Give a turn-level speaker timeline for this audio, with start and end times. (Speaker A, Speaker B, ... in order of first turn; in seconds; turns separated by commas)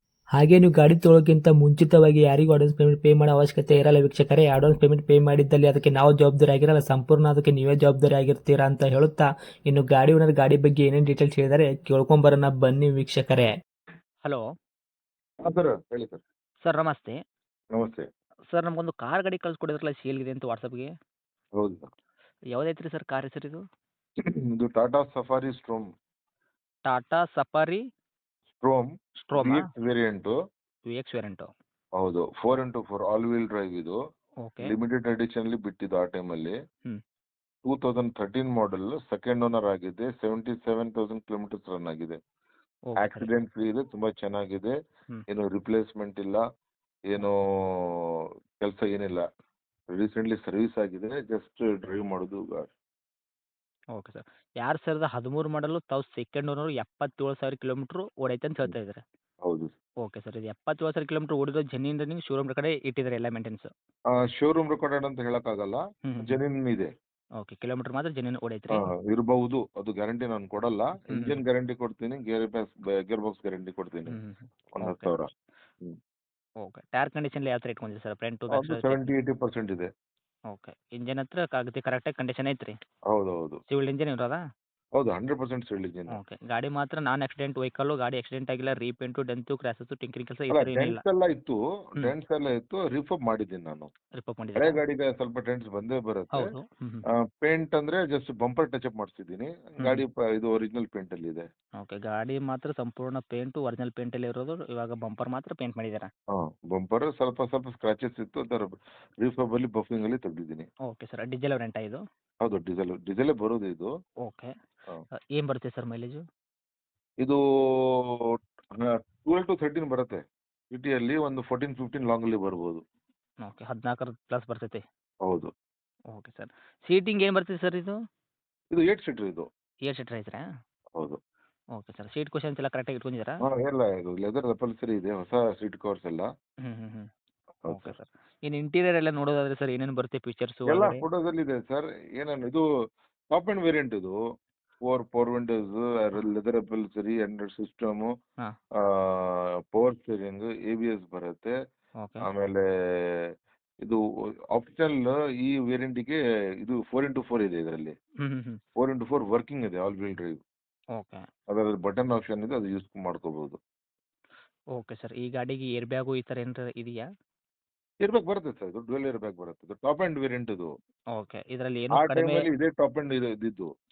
Speaker A: 0.3-13.5, Speaker B: 15.4-16.2, Speaker C: 16.6-17.2, Speaker B: 17.8-18.1, Speaker C: 18.5-20.9, Speaker B: 21.6-21.9, Speaker C: 22.5-23.6, Speaker B: 24.5-25.9, Speaker C: 26.9-27.8, Speaker B: 28.6-30.3, Speaker C: 29.3-29.7, Speaker C: 30.9-31.5, Speaker B: 32.0-34.0, Speaker C: 34.4-34.7, Speaker B: 34.6-36.5, Speaker B: 37.6-42.2, Speaker C: 42.9-43.3, Speaker B: 43.0-44.7, Speaker B: 45.3-46.4, Speaker B: 47.1-49.2, Speaker B: 49.9-52.7, Speaker C: 53.9-59.0, Speaker B: 59.4-59.7, Speaker C: 60.0-63.7, Speaker B: 64.1-66.9, Speaker C: 66.1-66.4, Speaker C: 67.4-68.8, Speaker B: 68.7-74.2, Speaker C: 71.1-71.4, Speaker C: 74.1-75.1, Speaker B: 74.7-75.3, Speaker C: 76.6-79.1, Speaker B: 78.5-79.9, Speaker C: 80.5-82.8, Speaker B: 83.1-83.6, Speaker C: 83.7-84.4, Speaker B: 85.0-86.2, Speaker C: 86.1-91.0, Speaker B: 90.5-93.9, Speaker C: 94.2-94.8, Speaker B: 94.6-96.5, Speaker C: 96.4-97.0, Speaker B: 97.3-101.5, Speaker C: 101.8-106.1, Speaker B: 106.3-110.7, Speaker C: 110.9-112.0, Speaker B: 112.4-113.9, Speaker C: 114.2-114.5, Speaker C: 115.3-116.2, Speaker B: 117.2-122.8, Speaker C: 123.4-124.8, Speaker B: 125.2-125.5, Speaker C: 126.1-128.0, Speaker B: 128.7-129.5, Speaker C: 129.9-130.4, Speaker C: 131.8-133.4, Speaker B: 133.4-136.3, Speaker C: 136.6-137.1, Speaker B: 137.6-137.9, Speaker C: 137.7-141.0, Speaker B: 140.7-142.6, Speaker B: 143.3-144.2, Speaker B: 144.8-148.1, Speaker B: 148.8-151.5, Speaker C: 152.0-152.3, Speaker B: 152.2-153.3, Speaker B: 154.5-157.9, Speaker C: 158.2-158.6, Speaker B: 158.8-160.4, Speaker C: 161.0-161.2, Speaker B: 161.5-163.6, Speaker C: 164.8-167.0, Speaker B: 168.0-170.7, Speaker C: 171.2-172.5, Speaker B: 171.9-173.7